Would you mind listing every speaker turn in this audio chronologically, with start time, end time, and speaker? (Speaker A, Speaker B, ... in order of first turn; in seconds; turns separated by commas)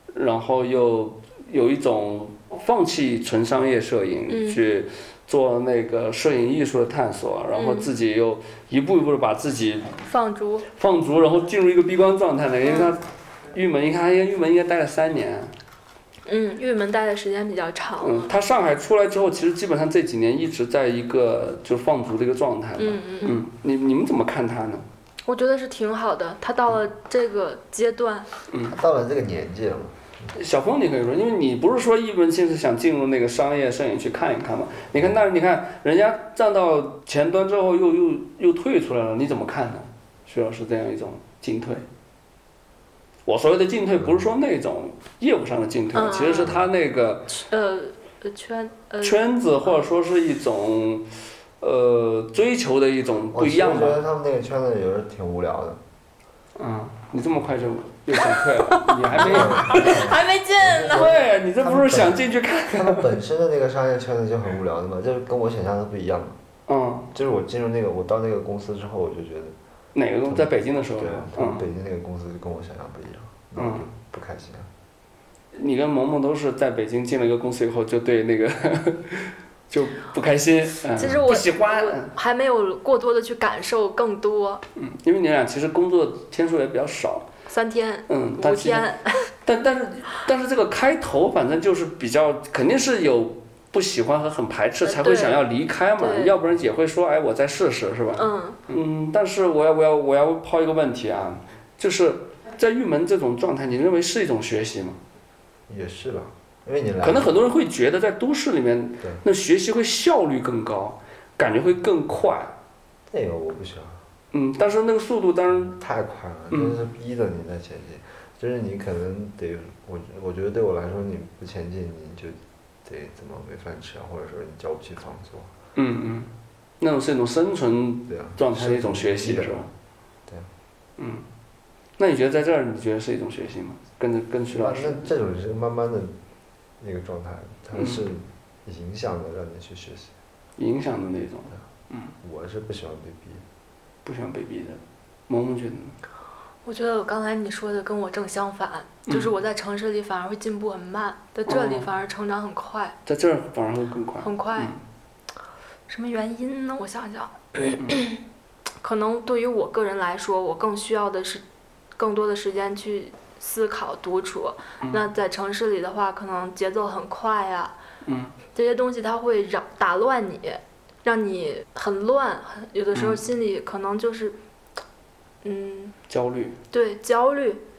Speaker A: 0.1-10.0, Speaker B: 4.3-4.6, Speaker B: 7.5-7.9, Speaker B: 10.1-10.7, Speaker A: 10.8-13.0, Speaker B: 12.6-12.9, Speaker A: 13.5-15.5, Speaker B: 16.3-18.3, Speaker A: 18.0-24.8, Speaker B: 22.8-23.4, Speaker B: 25.2-28.3, Speaker A: 28.5-28.8, Speaker C: 28.7-30.3, Speaker A: 30.3-41.8, Speaker A: 43.2-47.3, Speaker B: 45.9-46.6, Speaker B: 47.3-49.3, Speaker A: 49.0-51.1, Speaker A: 51.6-54.0, Speaker C: 53.3-55.8, Speaker A: 56.6-60.1, Speaker B: 58.6-61.1, Speaker C: 59.1-66.4, Speaker A: 60.8-63.1, Speaker A: 66.7-67.1, Speaker C: 67.1-69.5, Speaker A: 69.9-71.7, Speaker C: 70.3-74.7, Speaker A: 73.5-73.9, Speaker A: 75.5-82.1, Speaker B: 81.0-84.6, Speaker A: 84.8-87.3, Speaker B: 87.5-89.3, Speaker A: 88.1-88.9, Speaker A: 89.4-105.0, Speaker B: 94.8-95.5, Speaker B: 96.0-96.3, Speaker B: 98.2-98.6, Speaker C: 105.7-107.4, Speaker A: 107.0-112.5, Speaker C: 113.1-114.0, Speaker A: 114.3-115.7, Speaker C: 115.5-125.5, Speaker A: 116.5-116.8, Speaker A: 125.8-129.7, Speaker C: 128.1-129.7, Speaker A: 131.0-131.2, Speaker A: 132.0-135.1, Speaker C: 134.5-136.1, Speaker C: 136.8-140.1, Speaker A: 137.8-138.1, Speaker A: 140.6-142.1, Speaker C: 142.2-143.4, Speaker A: 144.0-145.9, Speaker B: 146.6-152.9, Speaker A: 149.1-149.3, Speaker A: 151.5-151.9, Speaker A: 153.1-154.8, Speaker B: 154.2-154.7, Speaker B: 155.9-158.2, Speaker A: 157.6-158.0, Speaker B: 158.8-161.4, Speaker B: 162.0-167.8, Speaker A: 168.0-168.3, Speaker B: 168.5-174.4, Speaker A: 172.9-173.2, Speaker B: 175.4-175.9, Speaker A: 176.1-176.6, Speaker B: 176.7-177.6